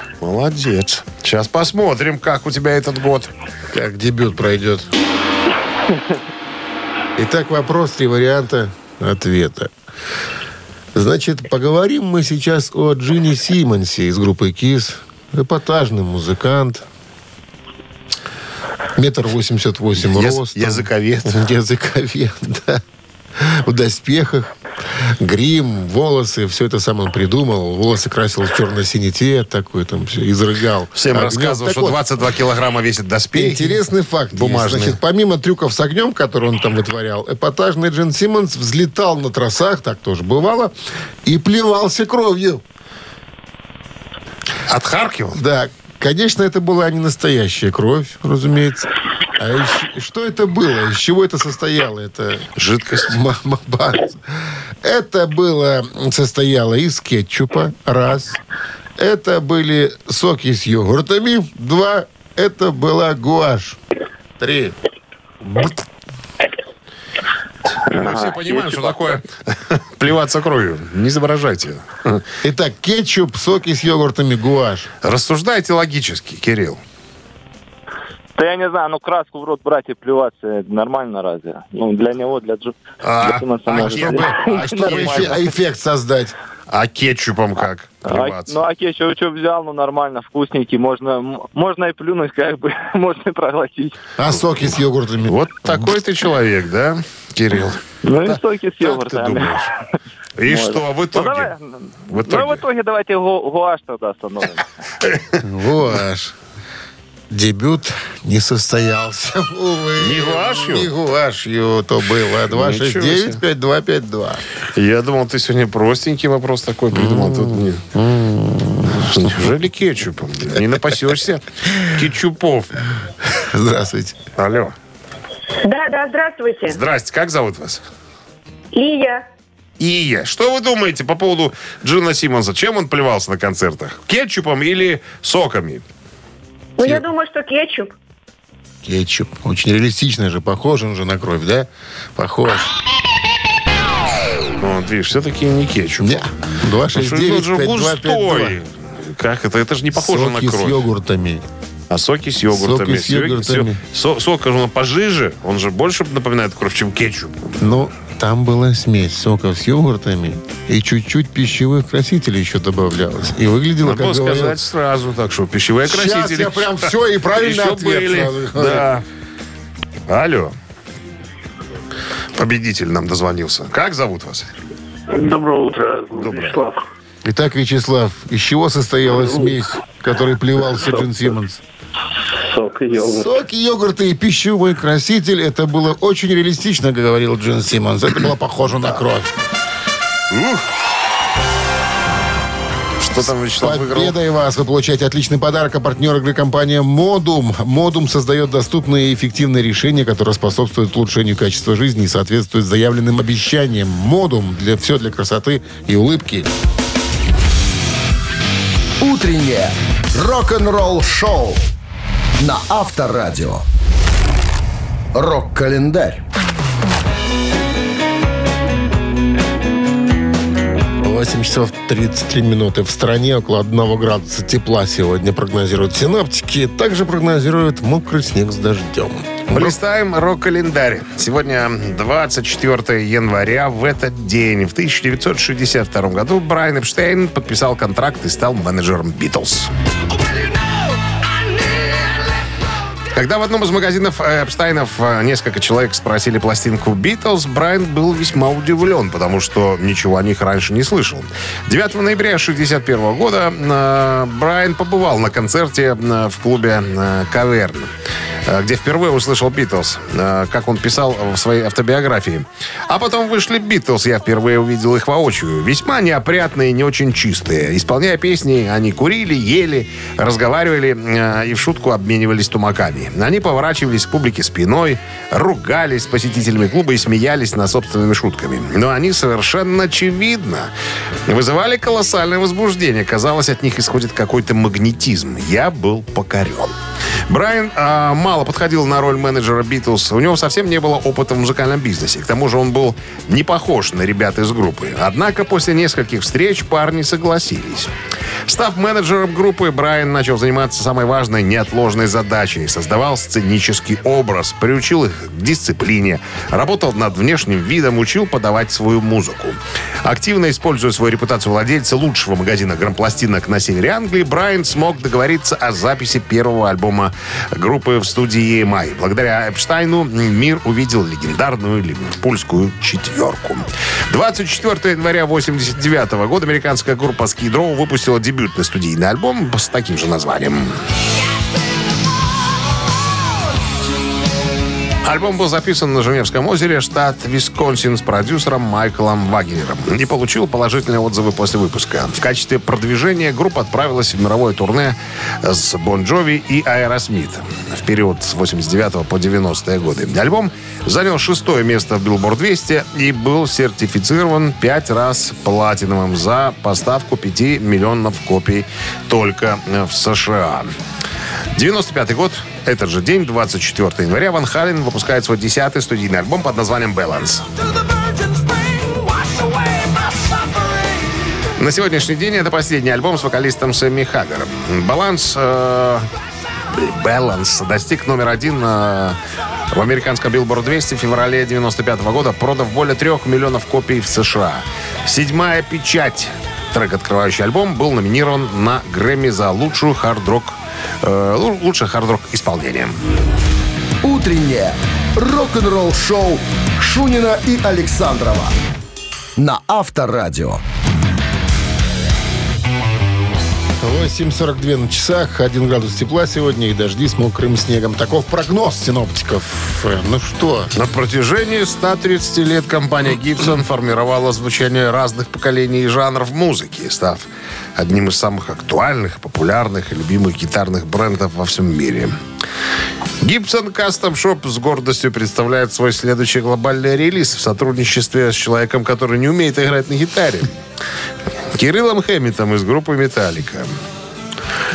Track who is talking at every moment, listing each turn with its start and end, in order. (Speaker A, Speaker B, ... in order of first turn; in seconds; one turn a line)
Speaker A: 0.2-3.3
Speaker B: 3.7-4.9
Speaker B: 7.2-9.7
Speaker B: 10.9-16.8
Speaker B: 18.9-22.8
Speaker A: 20.0-21.4
Speaker B: 23.4-24.5
Speaker B: 25.2-32.0
Speaker A: 30.9-33.8
Speaker B: 33.3-42.6
Speaker A: 34.3-35.0
Speaker A: 44.7-45.4
Speaker B: 45.3-52.5
Speaker A: 52.5-53.1
Speaker B: 53.1-58.4
Speaker B: 59.0-63.8
Speaker B: 64.4-64.8
Speaker C: 67.9-69.2
Speaker A: 67.9-72.2
Speaker B: 72.4-74.9
Speaker A: 75.0-76.8
Speaker C: 78.3-85.5
Speaker A: 83.0-85.4
Speaker B: 83.8-86.3
Speaker A: 86.7-88.5
Speaker C: 88.0-93.9
Speaker B: 94.2-95.4
Speaker A: 95.2-99.6
Speaker C: 98.0-99.6
Speaker A: 100.4-101.5
Speaker C: 100.5-104.6
Speaker A: 102.1-102.6
Speaker A: 105.0-105.3
Speaker B: 105.4-106.3
Speaker B: 107.3-114.4
Speaker A: 110.0-110.9
Speaker A: 112.5-113.4
Speaker A: 114.7-117.8
Speaker B: 116.9-119.5
Speaker A: 118.9-122.7
Speaker B: 123.3-124.2
Speaker A: 124.4-124.7
Speaker D: 125.6-126.8
Speaker A: 126.7-127.8
Speaker D: 128.7-129.2
Speaker A: 129.8-135.8
Speaker D: 136.8-137.9
Speaker B: 138.8-142.7
Speaker A: 144.6-146.2
Speaker B: 146.0-148.6
Speaker A: 146.9-150.8
Speaker B: 149.9-151.4
Speaker A: 151.9-157.4
Speaker B: 152.5-153.8
Speaker B: 157.6-164.6
Speaker A: 163.8-169.0
Speaker B: 165.8-168.9
Speaker A: 170.1-170.5
Speaker A: 172.3-174.5
Speaker E: 175.1-176.8
Speaker A: 176.2-176.5
Speaker B: 177.2-181.6
Speaker E: 179.2-179.5
Speaker E: 182.4-183.3
Speaker B: 183.0-189.3
Speaker A: 190.3-190.7
Speaker A: 193.0-194.1
Speaker B: 193.6-206.5
Speaker F: 209.0-211.7
Speaker F: 212.4-213.6
Speaker F: 215.1-216.2
Speaker B: 221.0-229.8
Speaker A: 229.5-239.7
Speaker A: 243.1-257.9
Speaker A: 258.4-280.7
Speaker A: 281.3-286.7
Speaker A: 287.3-297.9
Speaker A: 298.5-330.8
Speaker A: 335.0-360.7
Speaker A: 361.5-367.5
Speaker A: 368.3-370.5
Speaker A: 371.6-376.1
Speaker A: 376.7-379.2
Speaker A: 379.7-393.0
Speaker F: 394.0-398.5
Speaker F: 399.4-400.6
Speaker B: 403.8-410.7
Speaker A: 410.7-422.1
Speaker A: 423.2-430.6
Speaker A: 431.5-433.7